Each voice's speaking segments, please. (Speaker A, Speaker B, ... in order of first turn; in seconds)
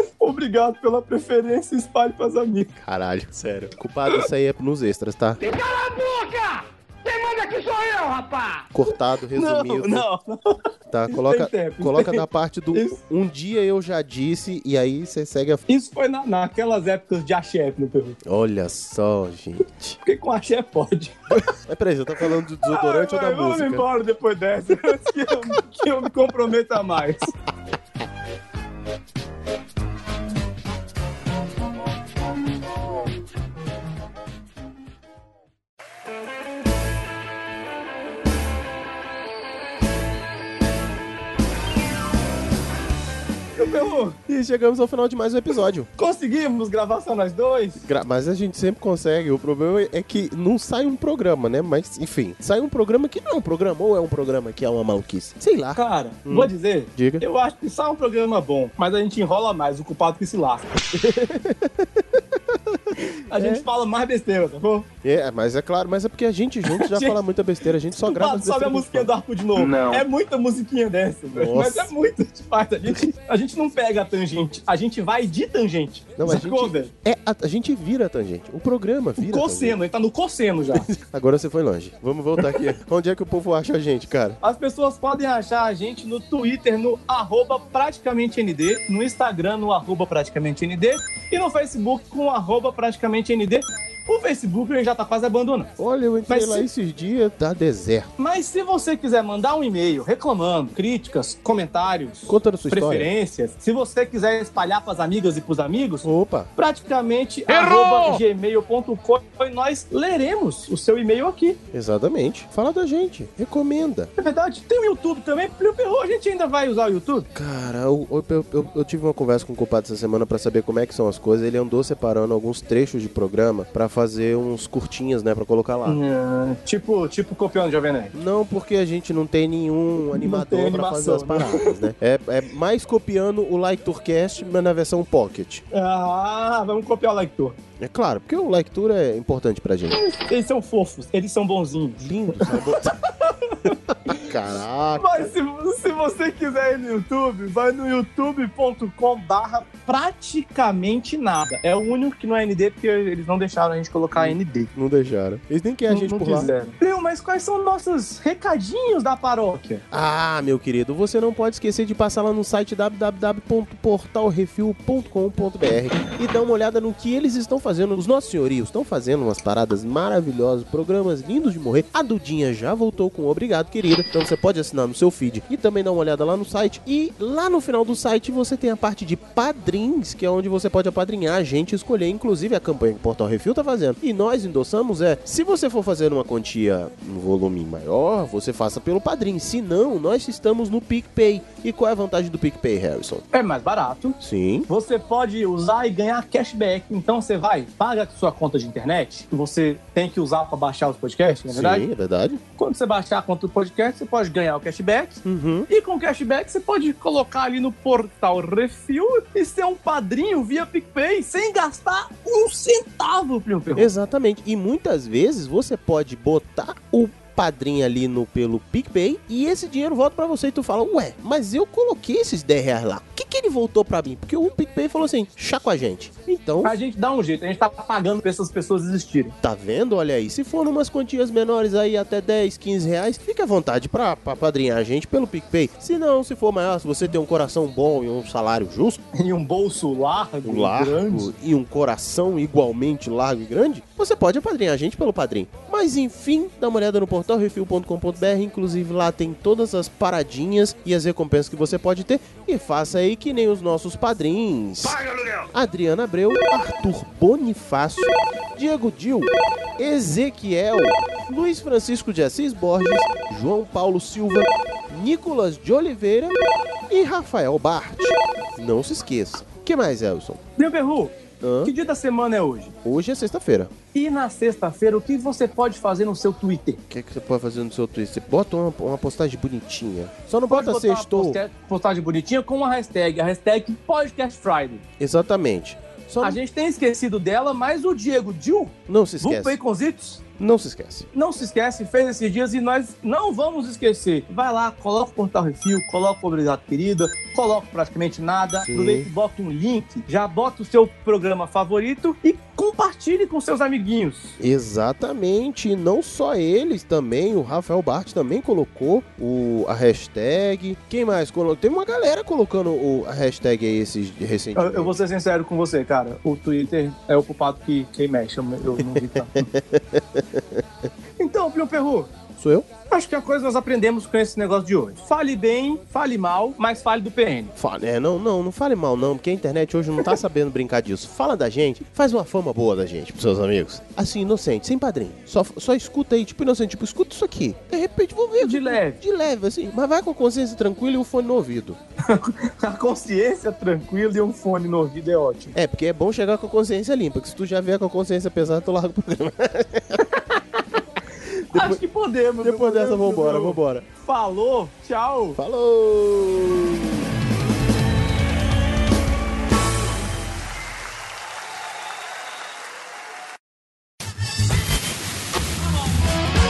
Speaker A: 0.2-2.8, 9.3-13.0, 15.7-18.2, 20.0-21.1, 22.6-27.3, 43.6-44.2, 46.0-47.8, 55.7-60.7, 63.3-64.9, 66.7-67.2, 68.0-76.9, 79.2-80.9, 84.4-95.7, 96.3-96.7, 98.2-111.6, 114.2-117.3, 125.8-128.1, 130.1-131.8, 135.7-137.6, 139.9-143.7, 144.9-154.7, 155.9-159.8, 193.3-201.9, 202.6-213.9, 226.6-229.3, 239.1-241.3, 270.6-272.7, 273.9-276.8, 280.5-284.8, 286.2-290.2, 291.1-304.3, 314.6-319.4, 321.2-322.1, 322.9-327.5, 338.4-339.0, 342.0-345.5, 351.5-355.4
Speaker B: 2.8-5.4, 8.7-10.1, 10.9-15.6, 18.2-20.0, 21.3-23.9, 44.2-45.9, 47.9-57.2, 60.9-63.6, 65.0-70.0, 71.3-71.9, 76.2-79.8, 80.7-84.4, 95.8-98.1, 102.3-103.1, 106.0-106.5, 111.7-114.1, 117.3-126.0, 128.1-135.6, 137.8-140.0, 142.0-142.9, 144.0-145.3, 154.1-156.5, 159.9-193.2, 194.2-194.7, 201.5-202.4, 205.2-205.7, 213.7-226.8, 229.4-239.0, 240.4-255.0, 255.5-270.4, 271.4-271.7, 272.8-273.7, 276.9-281.4, 285.0-286.4, 288.9-289.6, 290.4-291.1, 298.6-299.1, 304.4-315.0, 318.8-320.6, 322.4-322.7, 327.6-341.8, 345.5-350.1, 351.2-351.8, 352.4-353.9, 355.4-357.0
Speaker C: 5.4-8.6